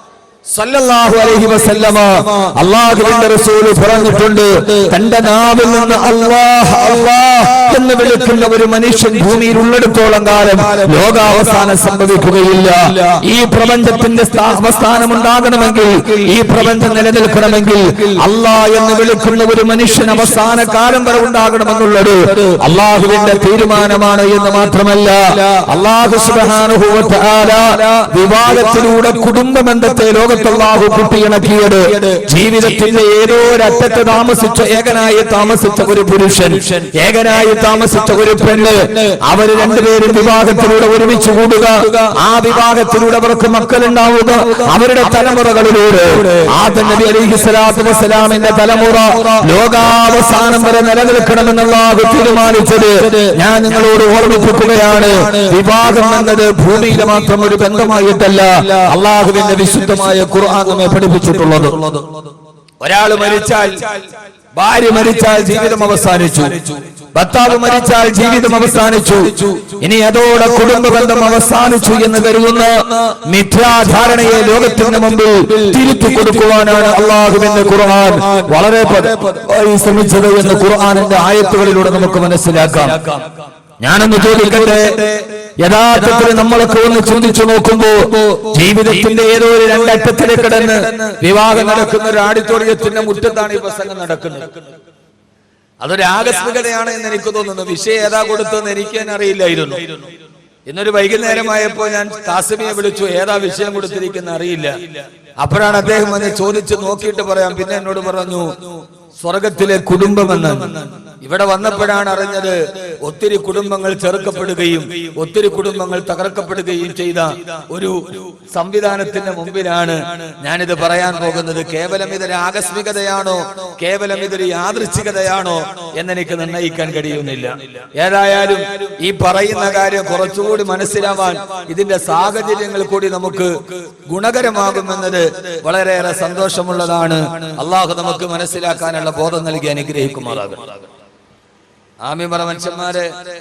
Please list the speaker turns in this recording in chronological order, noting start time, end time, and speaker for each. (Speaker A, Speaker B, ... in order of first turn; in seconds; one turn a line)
Speaker A: 0.5-62.0
Speaker A: 62.8-63.9
Speaker A: 64.5-83.0
Speaker A: 83.8-94.6
Speaker A: 95.8-100.0
Speaker A: 100.7-104.9
Speaker A: 105.4-108.6
Speaker A: 109.2-140.8
Speaker A: 142.0-143.1